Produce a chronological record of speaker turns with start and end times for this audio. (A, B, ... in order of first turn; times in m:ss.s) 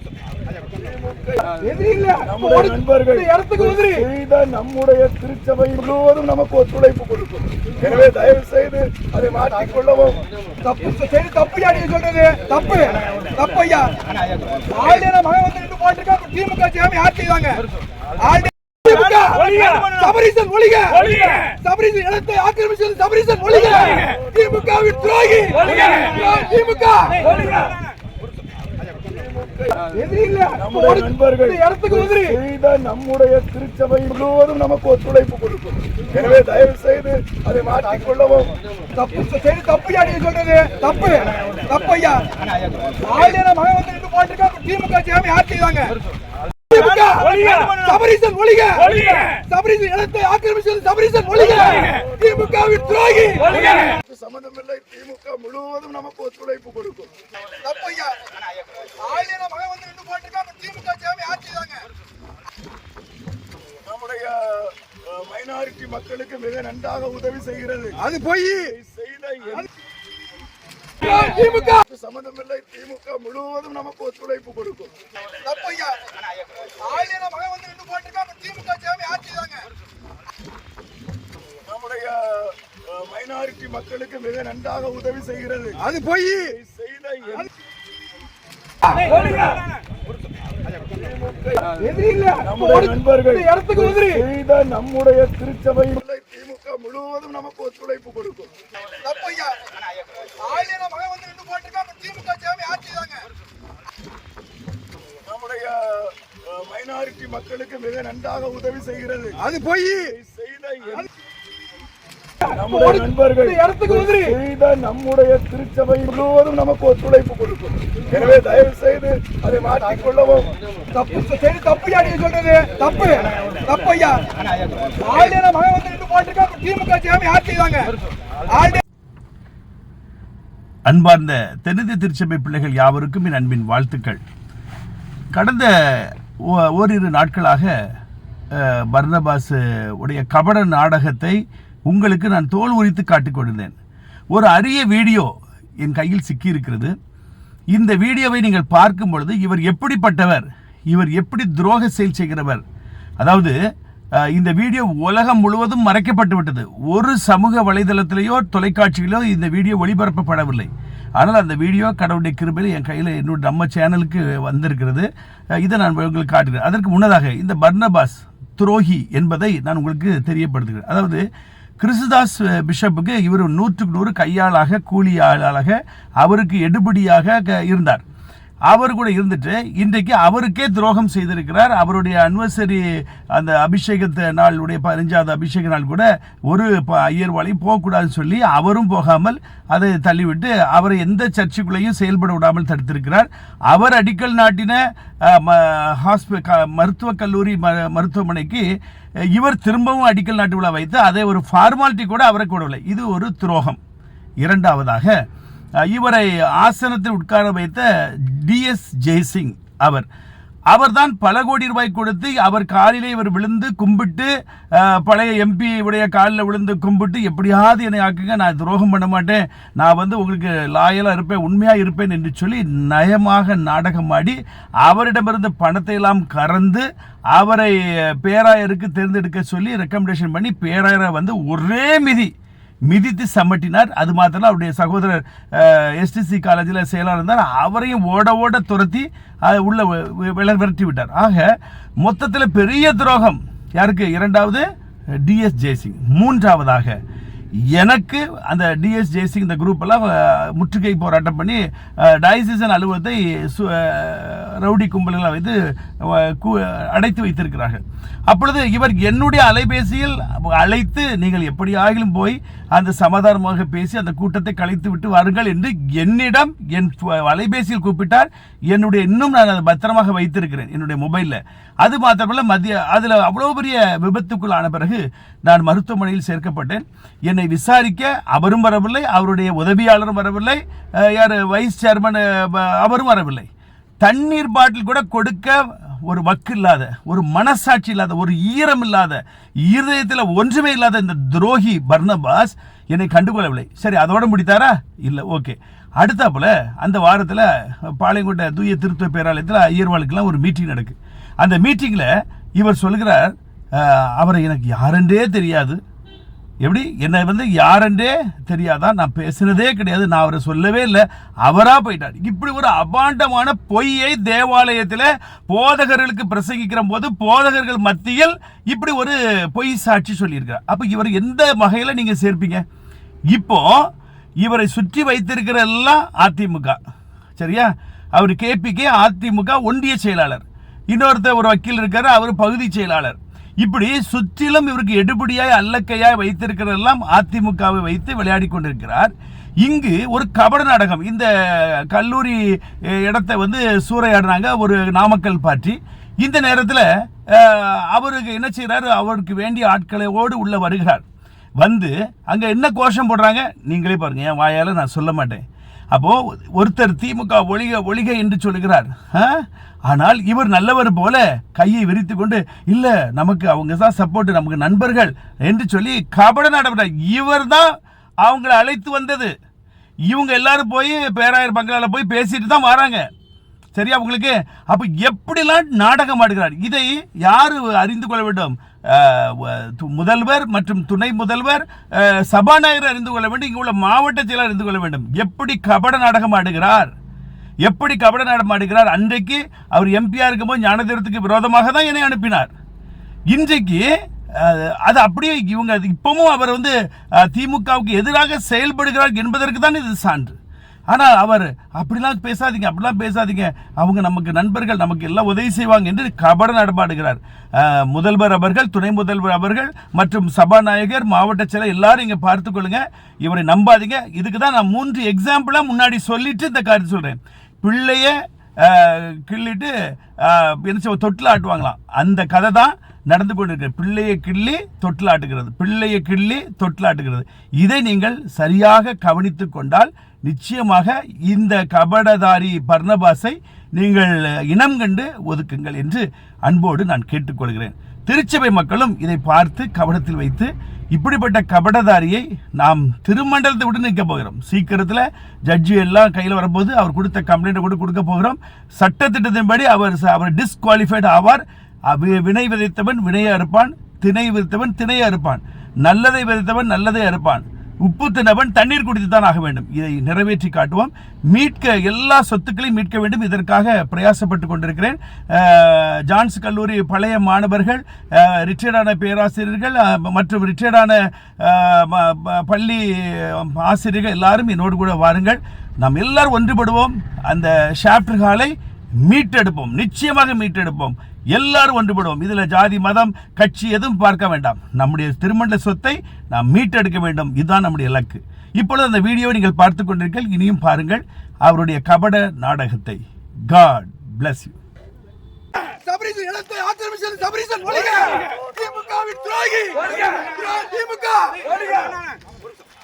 0:00.7-0:01.5 A
0:01.5-0:04.1 B
0:02.2-0:10.2 A
0:10.6-0:17.6 B
0:18.2-0:27.8 B
0:29.0-0:29.8 A
0:29.8-0:32.4 B
0:30.6-0:38.5 A
0:38.9-0:46.0 B
0:46.7-0:53.9 B
0:53.5-0:57.1 A
0:57.5-1:01.9 B
1:03.8-1:09.7 A
1:08.0-1:08.7 B
1:11.0-1:11.8 B
1:11.0-1:14.9 A
1:15.3-1:19.7 B
1:21.6-1:27.5 A
1:25.8-1:26.5 B
1:28.9-1:29.6 B
1:30.8-1:31.7 A
1:31.7-1:34.2 B
1:32.4-1:38.5 A
1:39.0-1:43.3 B
1:45.2-1:51.1 A
1:49.4-1:50.0 B
1:52.4-1:54.4 B
1:52.4-2:00.5 A
2:00.9-2:08.8 B
2:10.8-2:14.2 C
2:15.3-2:17.7 C
2:18.5-2:23.7 C
2:24.3-2:25.3 C
2:25.8-2:26.9 C
2:27.7-2:32.6 C
2:33.2-2:33.6 C
2:34.2-2:45.1 C
2:45.6-2:51.2 C
2:51.8-2:58.0 C
2:58.7-3:18.7 C
3:19.3-3:23.8 C
3:24.4-3:25.2 C
3:25.8-3:30.1 C
3:30.7-3:52.3 C
3:52.9-4:01.5 C
4:02.0-4:04.6 C
4:05.2-4:07.0 C
4:07.7-4:43.5 C
4:44.0-5:05.8 C
5:06.6-5:22.6 C
5:23.3-5:23.9 C
5:24.4-5:26.8 C
5:27.4-5:39.1 C
5:39.6-5:51.0 C
5:51.6-6:07.7 C
6:08.2-6:09.3 C
6:10.1-6:13.0 C
6:13.7-6:26.9 C
6:27.6-6:32.5 C
6:33.3-6:40.4 C
6:40.9-7:58.5 C
7:59.0-8:14.6 C
8:15.6-8:22.1 B
8:18.2-8:19.2 A